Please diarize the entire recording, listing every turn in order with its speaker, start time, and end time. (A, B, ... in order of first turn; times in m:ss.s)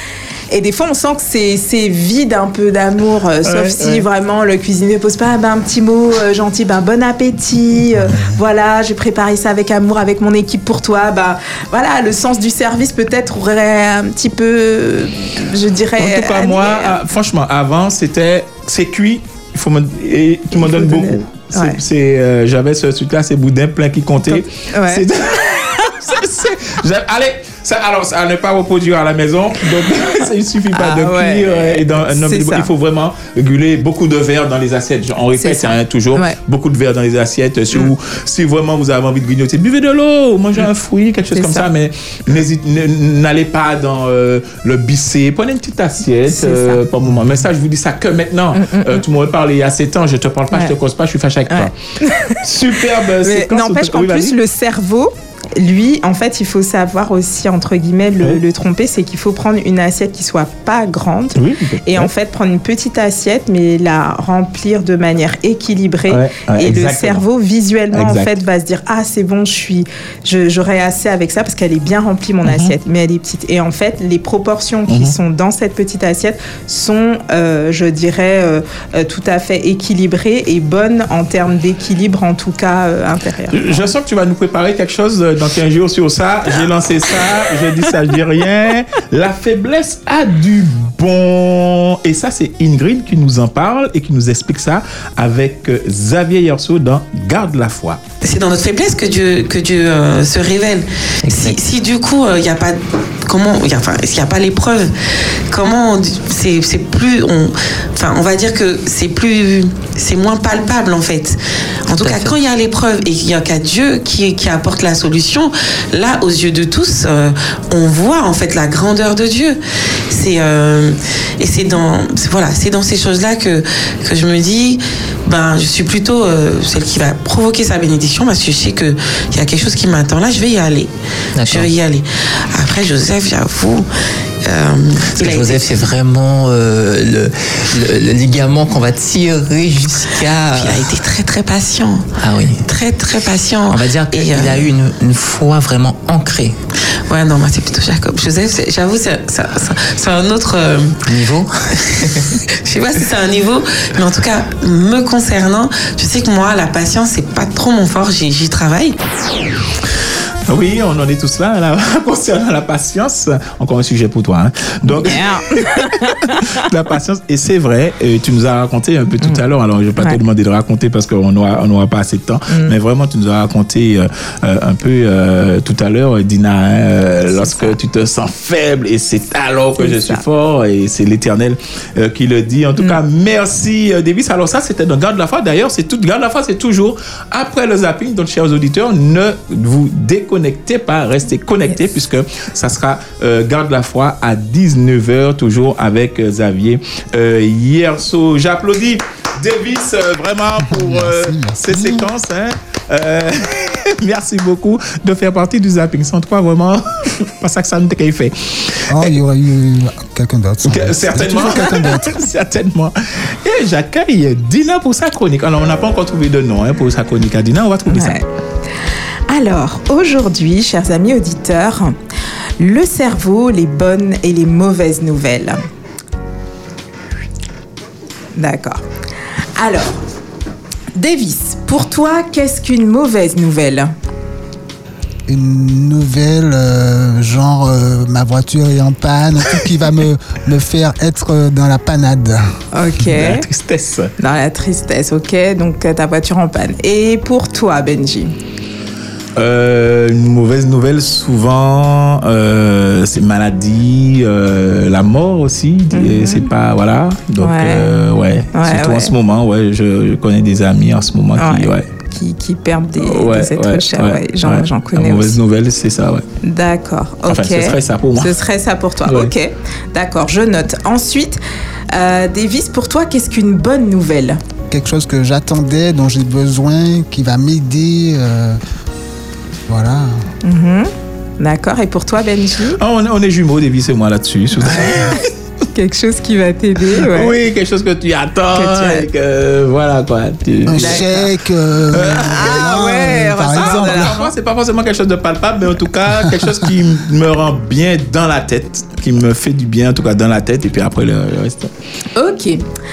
0:00.5-0:17.0 A
0:03.5-0:04.0 B
0:16.0-0:51.8 B
0:20.6-0:21.8 A
0:24.3-0:25.1 A
0:30.7-0:32.7 A
0:35.4-0:36.4 A
0:41.3-0:41.7 A
0:46.3-0:46.8 A
0:48.6-0:49.0 A
0:51.5-0:52.4 A
0:52.3-0:54.4 B
0:53.2-1:23.9 A
1:01.4-1:02.1 B
1:06.1-1:07.2 B
1:07.9-1:08.3 B
1:12.4-1:12.7 B
1:14.9-1:15.2 B
1:23.5-1:38.0 B
1:38.2-1:44.9 C
1:41.2-1:41.6 D
1:45.5-1:59.6 C
1:52.0-1:52.4 D
2:00.1-2:13.9 C
2:11.4-2:11.7 D
2:14.4-2:15.9 C
2:15.1-2:21.0 D
2:20.5-2:22.0 C
2:22.2-2:22.6 D
2:22.7-2:24.7 C
2:23.7-2:26.6 D
2:27.1-2:31.2 C
2:31.1-2:31.6 D
2:31.9-2:39.0 C
2:40.5-2:45.8 B
2:44.9-2:46.4 A
2:46.5-3:29.2 B
2:57.2-2:57.8 A
2:59.8-3:00.2 A
3:20.6-3:22.1 E
3:28.9-3:32.2 E
3:30.7-3:38.2 B
3:37.9-3:38.2 A
3:39.3-3:42.0 A
3:42.6-3:45.6 A
3:48.4-3:48.8 A
3:49.6-3:50.0 A
3:51.0-3:53.9 A
3:55.3-4:02.4 E
4:02.7-4:03.4 A
4:03.0-4:04.1 B
4:04.2-4:08.3 A
4:09.4-4:21.8 B
4:15.9-4:16.5 A
4:17.4-4:17.9 A
4:18.5-4:19.1 A
4:21.4-4:25.4 A
4:23.0-4:26.2 B
4:26.4-4:31.4 A
4:27.3-4:28.3 B
4:29.0-4:29.3 B
4:31.9-4:34.4 A
4:34.7-4:38.6 E
4:39.7-4:40.2 E
4:40.4-4:42.8 A
4:42.8-4:45.3 B
4:44.7-4:45.2 A
4:45.7-4:47.3 A
4:47.0-4:51.0 B
4:48.5-4:49.1 A
4:50.6-4:54.2 E
4:50.8-4:51.3 A
4:51.9-4:52.8 B
4:52.0-4:54.3 A
4:53.5-5:01.7 B
5:02.2-5:02.6 A